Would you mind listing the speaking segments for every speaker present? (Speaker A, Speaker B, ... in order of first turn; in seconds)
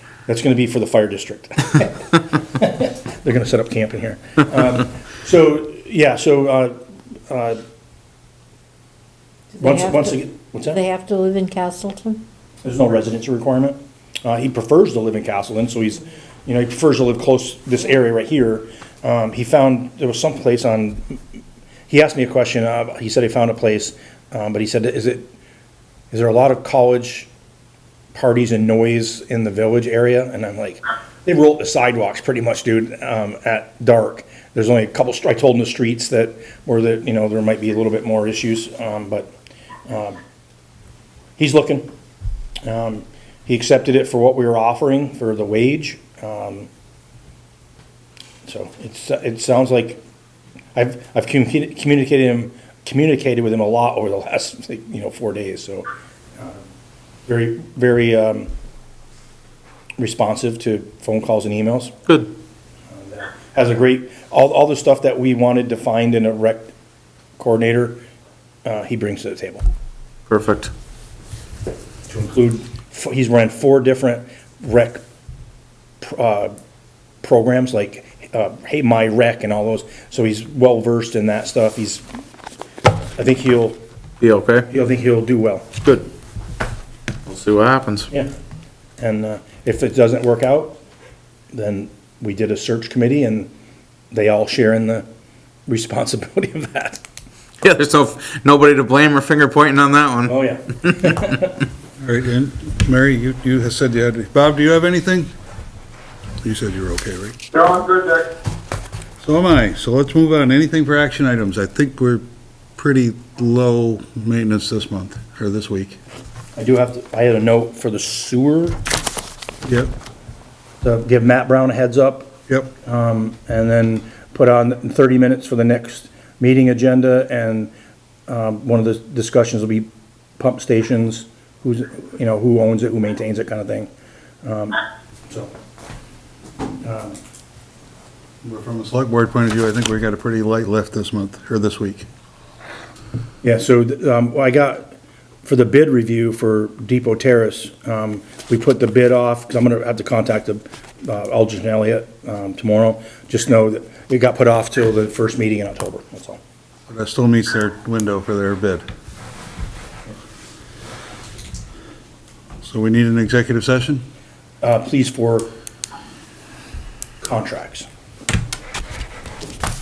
Speaker A: 0.3-6.7, 7.3-7.6, 9.6-10.8, 12.6-21.2, 21.9-25.3, 26.1-27.3, 28.1-39.3, 39.9-40.2, 41.4-41.9, 42.6-46.7, 48.4-50.0, 50.7-56.6, 57.2-58.5, 60.0-61.9, 62.9-66.7, 67.4-68.0, 68.6-69.6, 72.1-75.0, 76.0-76.5, 77.2-82.0, 83.2-83.8, 84.7-85.7, 89.0-90.8, 91.5-93.5, 94.1-95.1, 95.7-97.0, 100.3-101.5, 116.5-118.8, 120.8-127.7, 128.3-133.9, 134.4-135.5, 136.8-137.2, 143.4-156.4, 164.6-165.5, 167.2-167.9
Speaker B: 9.6-10.2, 10.7-12.2
Speaker C: 70.3-70.7, 84.2-84.7, 87.2-88.1, 97.6-101.4
Speaker D: 102.0-105.3, 106.4-107.7, 109.2-112.2, 112.8-116.0, 119.6-119.9, 138.4-142.1, 156.9-158.8, 162.6-164.0